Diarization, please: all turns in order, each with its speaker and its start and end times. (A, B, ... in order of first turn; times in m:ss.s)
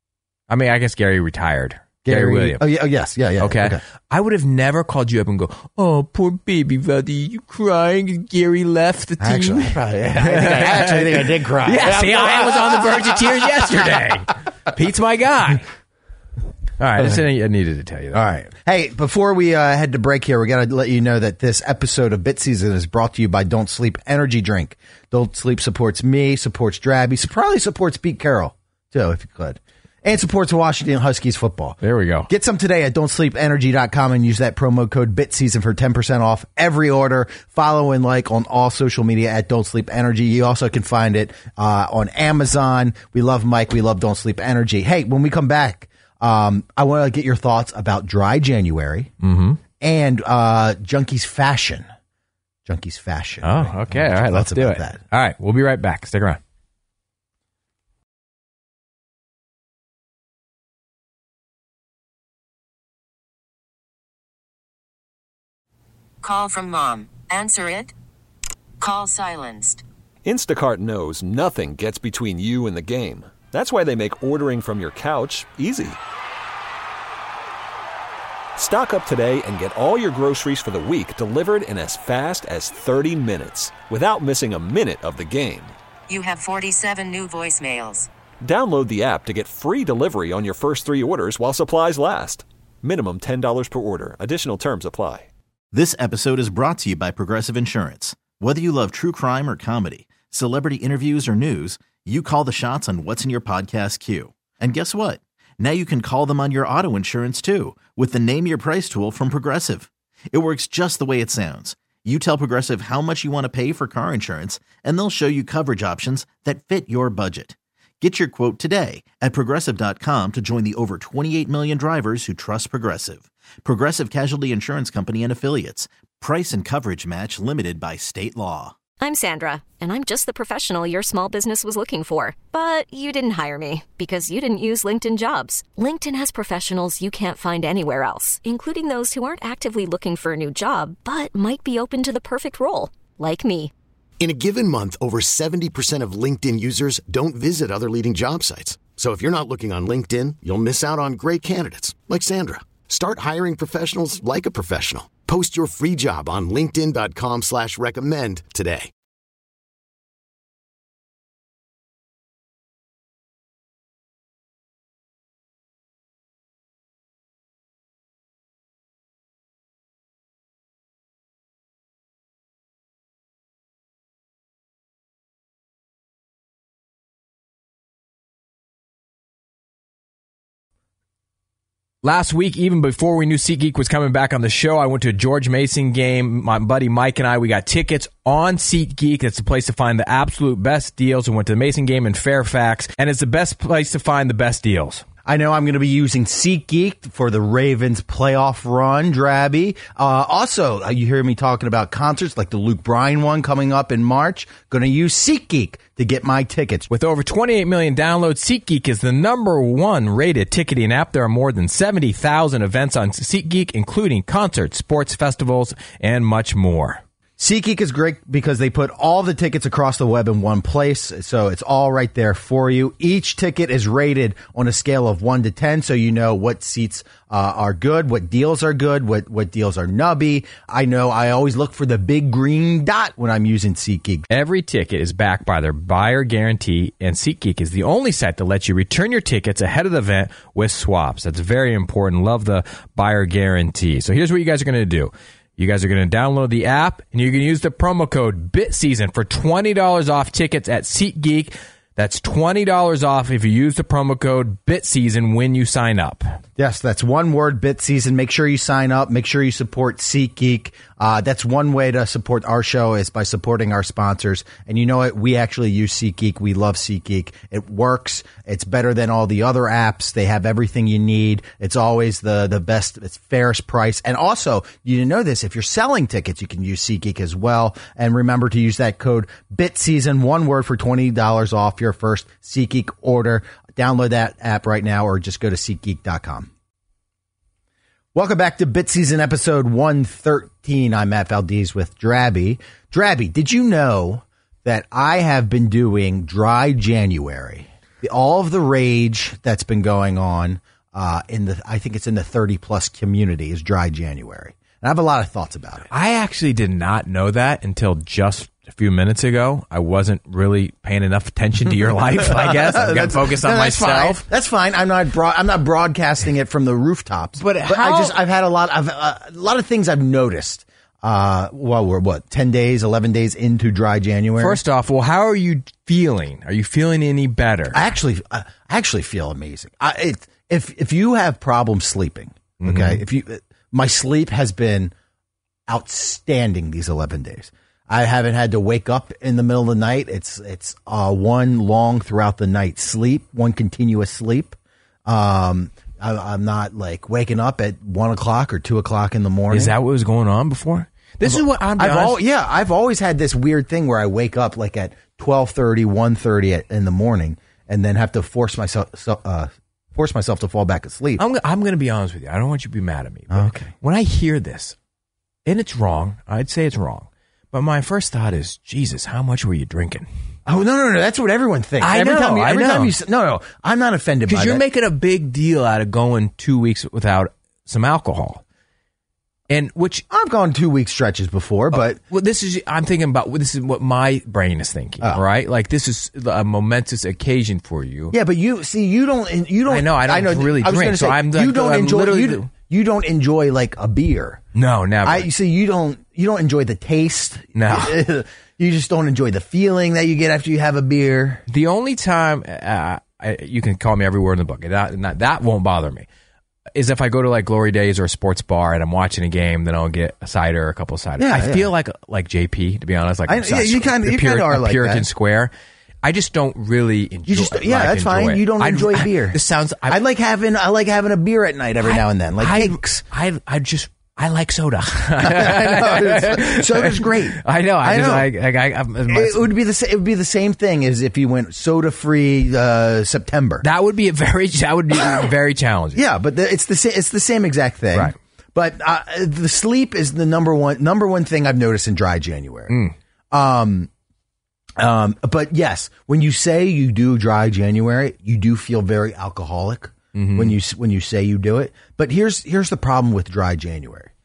0:00.5-0:02.6 A
0:02.0-0:03.8 B
0:03.4-0:15.6 A
0:09.2-0:14.0 B
0:16.8-0:18.2 A
0:18.1-0:49.1 B
0:31.8-0:32.3 A
0:49.2-0:49.6 A
0:49.8-0:51.9 B
0:52.7-0:55.0 B
0:53.4-0:56.4 A
1:06.2-1:07.9 C
1:08.8-1:09.8 C
1:10.2-1:16.0 D
1:18.6-1:25.8 D
1:26.1-1:28.1 C
1:28.4-1:35.3 D
1:35.7-2:08.8 E
2:09.0-2:23.7 F
2:24.2-2:38.9 G
3:02.0-3:15.0 A
3:15.3-3:26.9 B
3:26.9-3:37.0 A
3:37.4-3:54.3 B
3:54.3-4:16.4 A
4:16.6-4:46.5 B
4:48.1-5:05.9 B
5:05.9-5:14.2 A
5:12.2-5:24.6 B
5:17.4-5:18.2 A
5:24.4-5:27.8 A
5:27.7-5:34.9 B
5:32.6-5:33.0 A
5:35.7-5:49.8 B
5:49.5-5:52.2 A
5:51.2-6:01.2 B
6:01.2-6:04.8 A
6:03.3-6:03.7 B
6:05.5-6:10.1 A
6:10.5-6:14.6 B
6:11.8-6:12.9 A
6:14.3-6:18.4 A
6:19.5-6:20.0 A
6:20.1-6:22.0 B
6:21.7-6:28.2 A
6:28.1-6:34.4 B
6:29.7-6:32.5 A
6:34.6-6:35.3 A
6:35.0-6:41.4 B
6:37.6-6:38.0 A
6:41.5-6:46.1 A
6:46.8-6:55.5 A
6:51.2-6:51.7 B
6:53.3-6:55.1 B
6:56.0-7:00.0 A
6:57.3-7:03.0 B
7:01.8-7:09.5 A
7:05.2-7:08.3 B
7:09.1-7:13.7 B
7:13.6-7:16.0 A
7:16.0-7:22.8 B
7:22.7-7:23.0 A
7:23.3-7:23.9 B
7:24.8-7:34.1 B
7:30.1-7:30.6 A